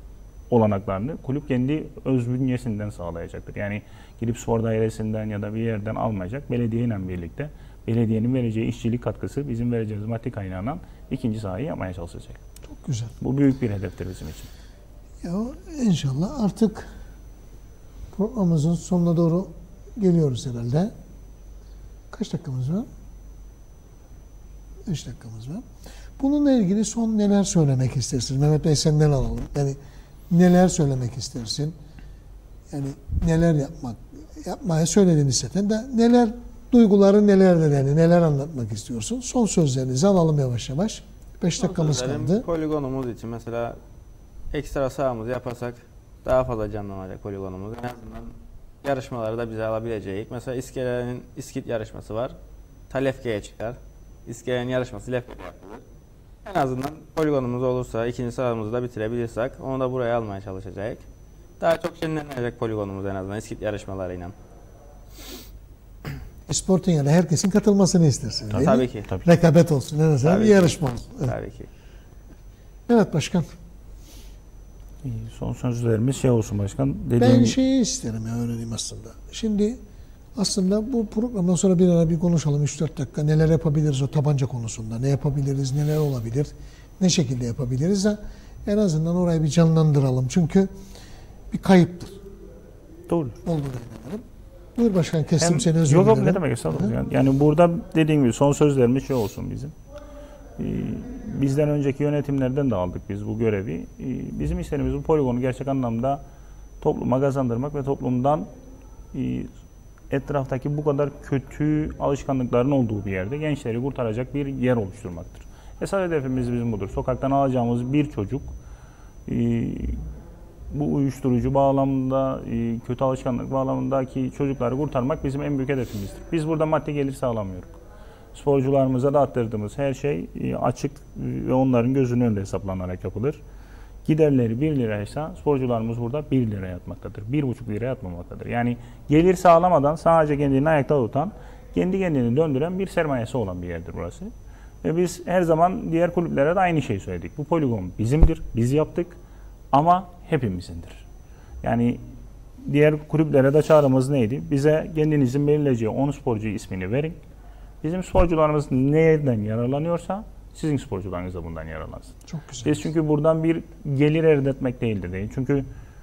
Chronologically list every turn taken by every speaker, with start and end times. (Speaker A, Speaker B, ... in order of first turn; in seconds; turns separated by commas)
Speaker A: 0.5-12.4, Speaker B: 12.7-13.1, Speaker A: 13.2-14.5, Speaker B: 15.2-16.9, Speaker B: 18.1-20.9, Speaker B: 22.1-22.9, Speaker B: 24.8-25.6, Speaker B: 26.2-29.8, Speaker B: 30.3-31.7, Speaker B: 32.7-42.4, Speaker C: 41.6-43.8, Speaker C: 44.5-52.4, Speaker C: 52.9-55.8, Speaker C: 56.4-61.0, Speaker C: 61.6-64.3, Speaker B: 66.5-71.3, Speaker A: 68.5-69.3, Speaker C: 68.5-69.1, Speaker C: 70.2-71.7, Speaker B: 72.9-73.5, Speaker A: 75.0-77.6, Speaker B: 77.2-79.8, Speaker B: 80.3-90.7, Speaker B: 91.5-92.2, Speaker A: 93.1-93.4, Speaker B: 93.4-94.2, Speaker B: 94.8-96.9, Speaker A: 95.4-99.7, Speaker A: 100.6-106.2, Speaker A: 106.8-108.5, Speaker A: 109.1-109.5, Speaker A: 110.1-118.5, Speaker A: 119.3-120.0, Speaker A: 120.7-127.8, Speaker A: 128.3-133.4, Speaker A: 134.1-144.3, Speaker A: 144.8-149.2, Speaker A: 149.7-151.1, Speaker A: 151.6-152.0, Speaker A: 152.6-157.2, Speaker A: 157.8-165.7, Speaker B: 162.3-162.8